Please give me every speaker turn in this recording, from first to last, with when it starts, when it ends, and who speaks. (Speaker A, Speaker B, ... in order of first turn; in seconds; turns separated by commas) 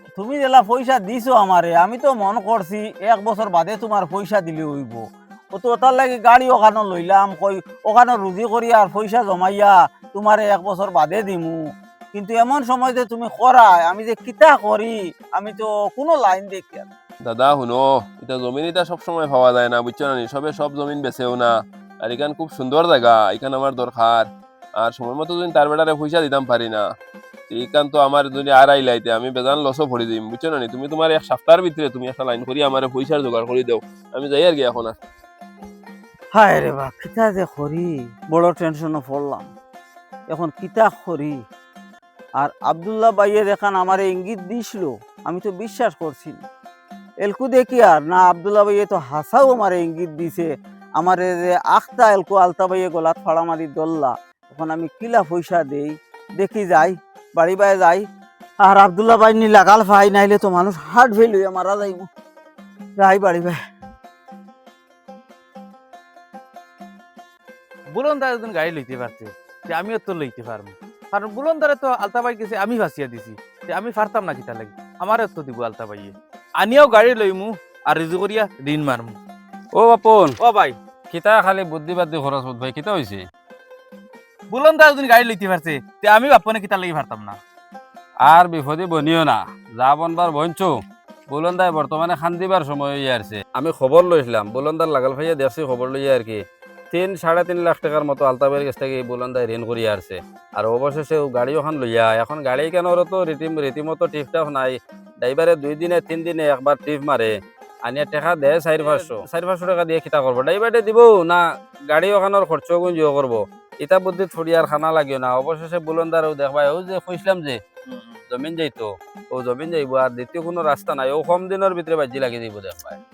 Speaker A: 0.2-11.6, Speaker A: 12.1-16.9, Speaker B: 17.2-21.5, Speaker B: 22.0-24.3, Speaker B: 24.8-26.8, Speaker B: 27.5-35.0, Speaker A: 36.3-39.5, Speaker A: 40.3-41.4, Speaker A: 42.4-46.4, Speaker A: 47.2-58.0, Speaker A: 58.6-62.0, Speaker A: 63.0-63.6, Speaker C: 67.9-79.2, Speaker D: 79.7-80.3, Speaker C: 80.4-80.8, Speaker D: 81.1-83.2, Speaker C: 84.5-87.4, Speaker D: 88.2-90.7, Speaker D: 91.3-107.3, Speaker D: 107.8-117.6, Speaker C: 108.8-109.2, Speaker C: 117.9-118.2, Speaker D: 118.3-123.0